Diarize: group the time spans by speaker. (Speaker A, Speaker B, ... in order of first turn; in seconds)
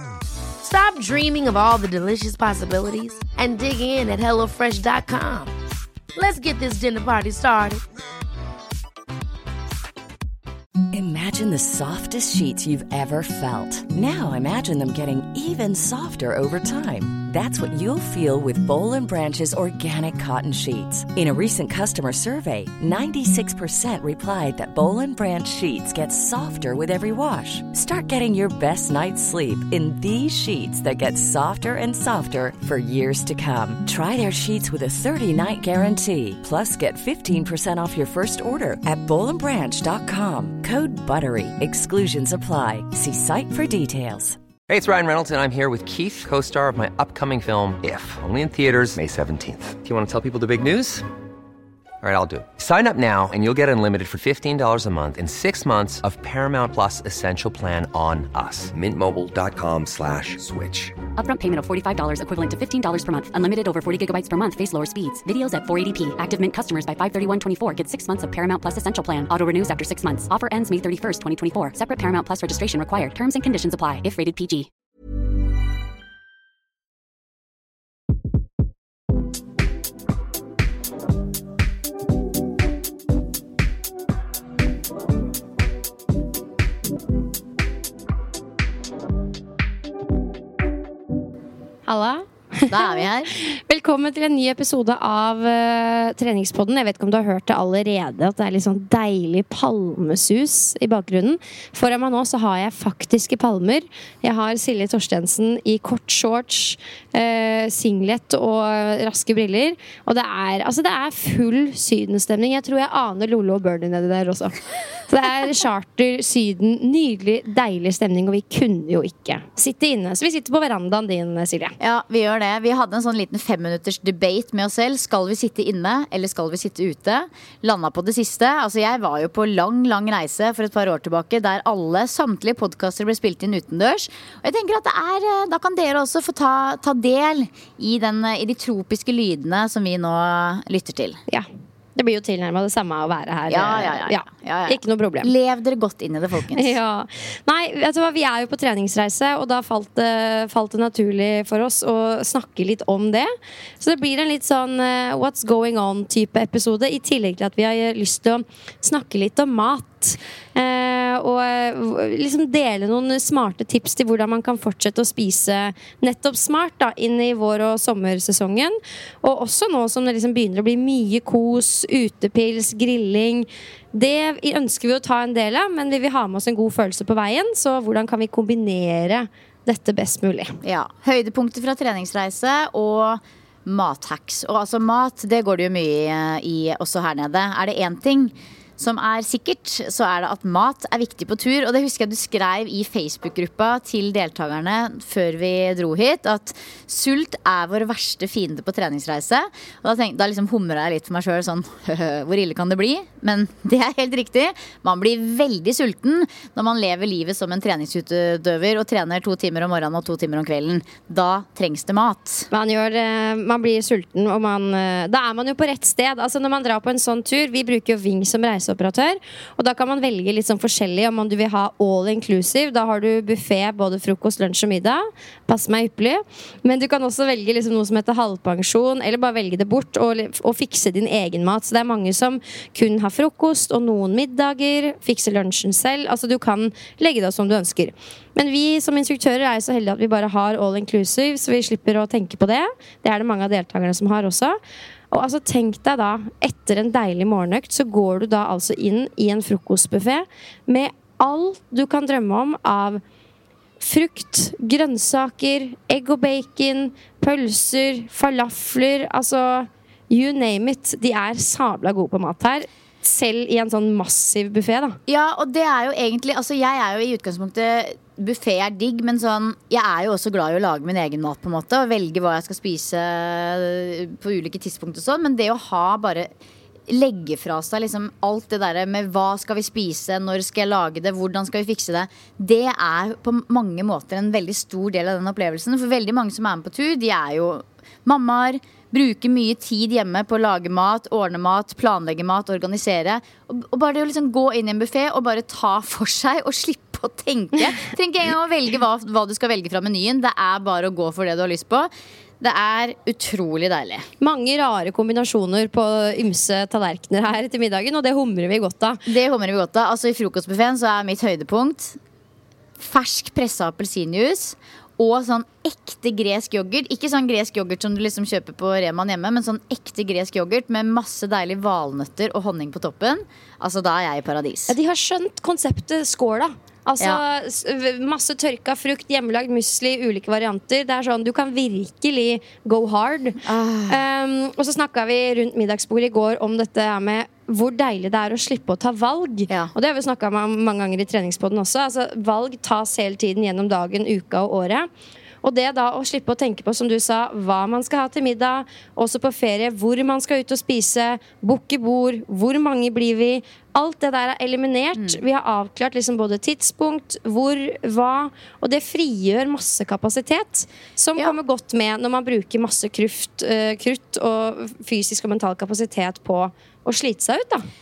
Speaker A: 0.6-5.5, 6.1-7.8
Speaker B: 10.9-44.4
Speaker C: 44.7-51.0, 52.0-61.0
Speaker D: 61.1-74.7
Speaker E: 91.8-121.8, 141.3-145.3, 146.5-180.6, 212.5-244.6, 245.1-253.0, 253.8-265.0, 304.2-309.0, 324.7-344.9, 345.4-367.7
Speaker F: 92.7-93.3, 121.8-141.2, 143.5-146.8, 180.6-212.5, 265.1-276.3, 276.9-301.9, 302.4-304.1, 309.1-312.0, 312.8-324.7, 333.4-334.0, 354.9-355.2